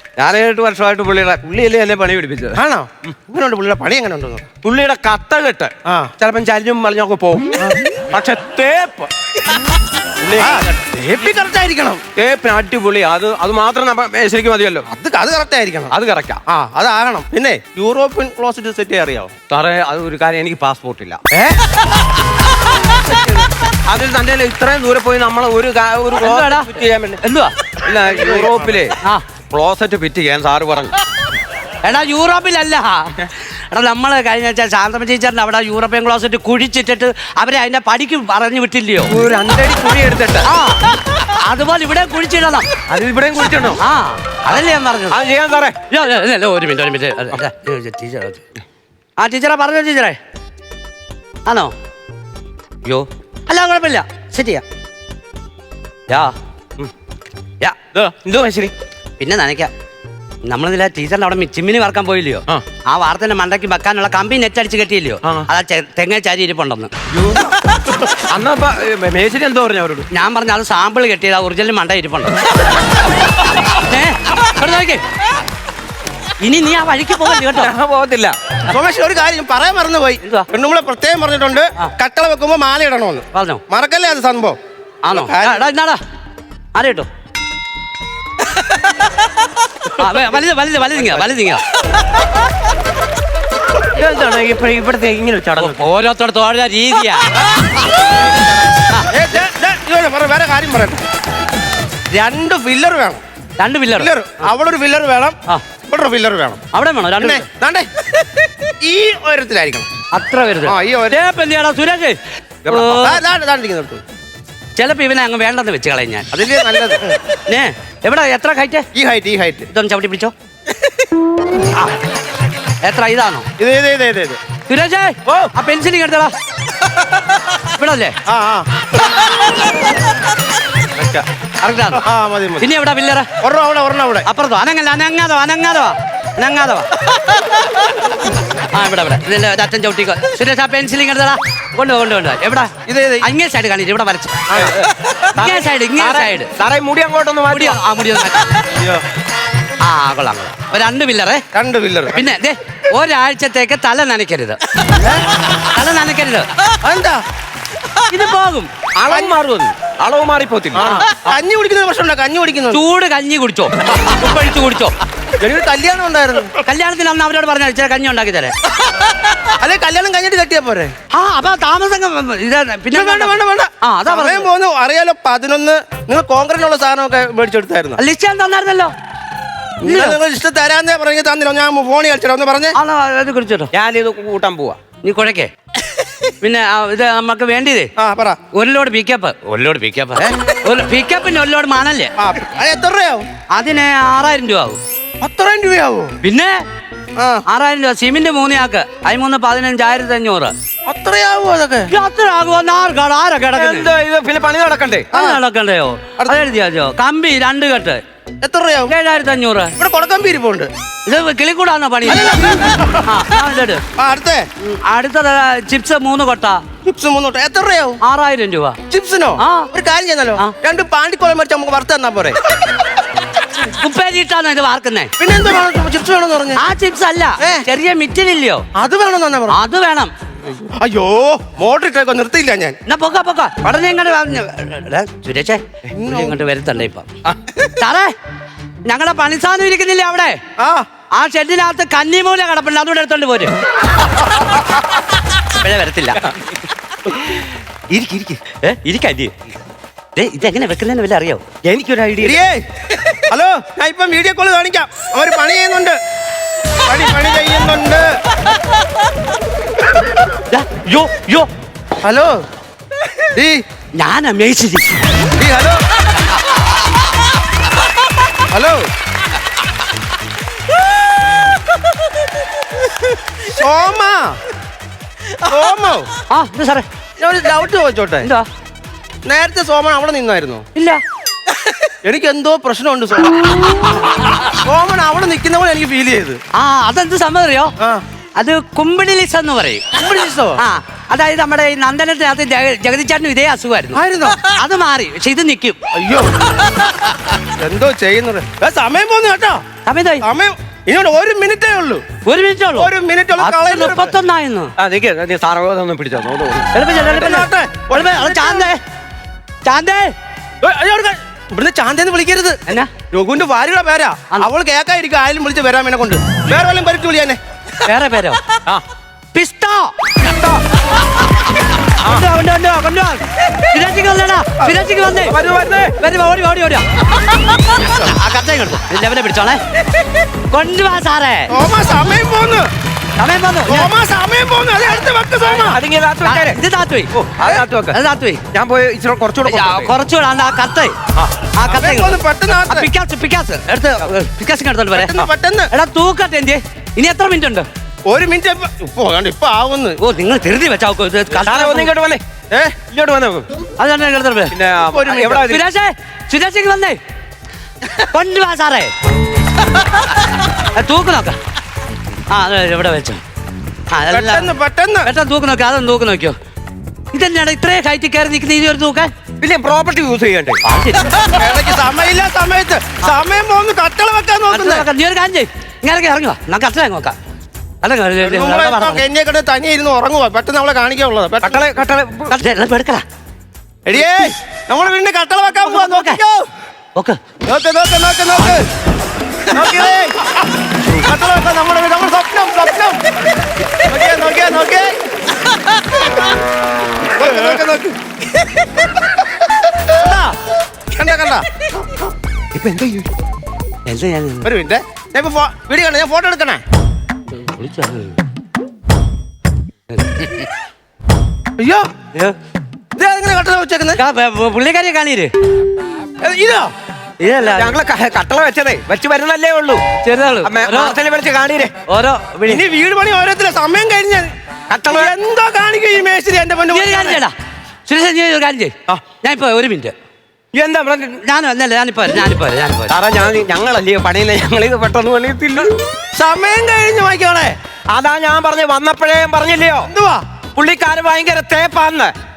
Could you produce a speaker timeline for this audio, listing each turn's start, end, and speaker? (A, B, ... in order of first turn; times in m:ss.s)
0:00.2-0:03.1 A
0:02.6-0:04.5 B
0:04.6-0:09.6 A
0:05.8-0:06.1 B
0:10.2-0:10.8 A
0:10.3-0:12.0 B
0:12.1-0:14.9 A
0:14.9-0:15.9 B
0:15.9-0:16.4 A
0:16.5-0:19.3 B
0:19.5-0:21.2 A
0:21.3-0:21.6 B
0:23.1-0:23.4 B
0:23.8-0:27.2 A
0:26.2-0:26.7 C
0:27.2-0:27.6 C
0:27.8-0:29.0 A
0:28.1-0:28.5 B
0:29.5-0:30.9 A
0:31.8-0:39.1 C
0:39.1-0:40.5 A
0:40.5-0:42.7 C
0:42.9-0:43.8 A
0:43.8-0:45.2 C
0:44.5-0:45.8 A
0:45.9-0:48.4 C
0:49.2-0:50.2 C
0:51.5-0:51.7 C
0:52.8-0:54.6 C
0:57.9-0:58.7 A
0:59.2-0:59.7 C
1:00.4-1:06.9 C
1:07.1-1:10.1 A
1:10.1-1:12.4 C
1:13.6-1:15.0 C
1:16.4-1:17.7 C
1:17.5-1:18.4 A
1:18.7-1:24.6 B
1:23.3-1:23.6 C
1:25.0-1:26.0 C
1:25.1-1:25.7 B
1:26.8-1:27.1 C
1:30.0-1:31.6 C
1:31.0-1:31.2 A
1:33.9-1:35.8 A
1:35.6-1:37.4 C
1:39.1-1:41.0 B
1:42.1-1:43.2 B
1:43.6-1:44.1 C
1:44.0-1:45.4 B
1:45.9-1:46.6 B
1:46.7-1:47.5 C
1:47.2-1:47.9 B
1:48.8-1:49.9 B
1:50.1-1:53.2 C
1:50.6-1:51.2 B
1:52.6-1:53.0 A
1:52.9-1:54.0 B
1:54.8-1:56.3 C
1:56.3-1:57.2 B
1:57.5-1:58.9 C
1:58.9-1:59.7 B
1:59.7-2:00.3 C
2:02.8-2:03.5 C
2:03.6-2:04.4 B
2:04.7-2:06.3 C
2:07.8-2:08.2 C
2:08.3-2:08.7 B
2:11.0-2:11.2 A
2:11.6-2:12.0 C
2:11.9-2:12.7 B
2:12.6-2:13.3 C
2:13.4-2:14.3 B
2:14.2-2:16.9 C
2:18.7-2:24.4 C
2:22.8-2:23.3 B
2:24.5-2:24.8 B
2:24.5-2:27.8 A
2:25.3-2:26.5 C
2:27.5-2:28.6 C
2:28.8-2:29.0 B
2:29.8-2:31.4 C
2:31.5-2:32.2 B
2:32.1-2:34.6 C
2:34.9-2:35.2 B
2:35.5-2:36.5 C
2:36.8-2:37.2 B
2:38.1-2:38.7 C
2:39.0-2:40.8 A
2:40.7-2:42.8 B
2:40.8-2:41.1 C
2:42.7-2:45.0 C
2:45.4-2:46.6 B
2:46.6-2:48.6 C
2:49.6-2:50.9 B
2:51.1-2:54.5 C
2:52.9-2:58.0 B
2:58.0-2:58.9 C
2:59.8-3:02.8 B
2:59.8-3:00.2 C
3:02.8-3:03.7 C
3:03.7-3:04.8 A
3:05.0-3:05.5 C
3:06.4-3:07.9 C
3:08.0-3:08.4 B
3:08.5-3:12.1 C
3:12.2-3:13.3 B
3:13.5-3:14.8 C
3:15.2-3:16.2 B
3:16.2-3:16.6 C
3:17.2-3:17.4 B
3:17.5-3:20.5 C
3:20.8-3:21.9 B
3:21.9-3:23.9 C
3:23.5-3:25.1 A
3:25.1-3:25.4 B
3:25.1-3:28.0 C
3:28.4-3:28.9 B
3:28.9-3:29.8 C
3:29.8-3:30.7 B
3:31.1-3:32.5 C
3:32.1-3:33.1 B
3:33.0-3:33.8 C
3:34.0-3:34.5 B
3:34.6-3:36.6 C
3:36.8-3:38.0 B
3:38.0-3:38.8 C
3:38.9-3:42.4 B
3:39.4-3:39.7 C
3:43.6-3:45.1 C
3:45.2-3:46.6 B
3:46.6-3:48.7 C
3:47.4-3:47.7 B
3:48.8-3:49.6 B
3:49.5-3:50.1 C
3:50.4-3:52.8 B
3:52.9-3:57.1 C
3:55.9-3:56.4 B
3:57.8-3:58.1 C
3:58.8-4:00.4 C
4:00.6-4:00.9 B
4:01.1-4:03.6 C
4:05.6-4:06.2 C
4:07.9-4:09.3 A
4:10.2-4:11.5 C
4:11.6-4:12.4 A
4:12.2-4:12.6 B
4:13.3-4:16.0 B
4:16.8-4:18.1 B
4:20.5-4:21.5 C
4:22.0-4:22.4 B
4:23.3-4:23.6 B
4:24.0-4:25.0 C
4:25.4-4:25.8 B
4:28.4-4:28.9 B
4:33.4-4:34.4 B
4:35.4-4:36.1 B
4:36.3-4:36.9 C
4:37.2-4:38.3 B
4:39.3-4:40.6 B
4:40.8-4:41.0 C
4:42.0-4:43.6 B
4:44.5-4:46.4 B
4:46.6-4:47.7 C
4:48.4-4:49.9 C
4:49.9-4:50.6 B
4:50.6-4:55.8 C
4:53.9-4:54.5 B
4:55.9-4:56.3 B
4:57.4-4:59.6 B
4:59.9-5:00.2 C
5:00.2-5:02.0 B
5:02.2-5:04.7 C
5:02.8-5:04.2 B
5:04.8-5:06.7 A
5:06.7-5:08.8 C
5:07.0-5:08.7 B
5:09.6-5:10.1 C
5:10.6-5:12.6 B
5:13.1-5:17.4 B
5:17.8-5:18.4 C
5:19.3-5:19.9 C
5:20.2-5:20.6 A
5:22.0-5:25.4 C
5:25.3-5:25.9 A
5:26.0-5:26.8 C
5:27.8-5:29.6 C
5:30.5-5:31.5 C
5:31.5-5:32.7 B
5:33.2-5:33.9 C
5:33.7-5:35.8 B
5:35.4-5:36.6 A
5:36.2-5:37.1 C
5:37.1-5:38.0 A
5:37.9-5:38.4 C
5:38.5-5:39.9 A
5:39.4-5:41.0 C
5:41.6-5:45.1 C
5:41.7-5:42.9 B
5:44.9-5:45.7 B
5:45.7-5:47.7 C
5:48.1-5:50.0 B
5:50.0-5:51.9 C
5:51.4-5:52.2 A
5:52.5-5:52.8 B
5:52.9-5:53.5 A
5:53.8-5:54.5 C
5:54.5-5:55.6 A
5:54.9-5:55.5 B
5:55.5-5:57.0 C
5:58.1-5:58.9 C
6:00.7-6:01.4 C
6:02.3-6:03.2 C
6:03.9-6:04.5 C
6:04.1-6:05.1 B
6:05.0-6:06.4 C
6:07.1-6:09.1 C
6:09.4-6:10.6 A
6:10.6-6:11.1 C
6:11.2-6:14.9 B
6:14.5-6:17.2 C
6:17.8-6:19.0 C
6:18.2-6:21.6 B
6:21.4-6:22.4 A
6:22.3-6:23.0 C
6:23.9-6:26.5 B
6:25.6-6:26.2 C
6:27.5-6:28.7 B
6:29.5-6:30.2 B
6:29.5-6:30.1 A
6:31.0-6:33.0 B
6:33.8-6:35.0 B
6:37.2-6:38.0 B
6:39.7-6:40.4 B
6:40.9-6:41.5 B
6:42.6-6:43.0 A
6:43.9-6:44.5 C
6:44.4-6:46.6 B
6:47.4-6:48.2 C
6:51.6-6:51.9 B
6:53.0-6:54.0 B
6:54.0-6:55.3 C
6:56.2-6:56.7 B
6:57.2-6:57.8 C
6:57.4-6:59.8 A
7:00.0-7:01.0 C
7:00.4-7:01.7 A
7:01.9-7:02.6 C
7:02.4-7:04.3 B
7:04.7-7:05.1 A
7:04.9-7:07.2 B
7:06.7-7:07.4 C
7:07.9-7:10.0 C
7:10.5-7:11.2 A
7:11.2-7:13.0 C
7:12.9-7:15.7 A
7:16.2-7:17.6 B
7:17.9-7:19.9 A
7:19.8-7:20.2 B
7:20.6-7:22.1 A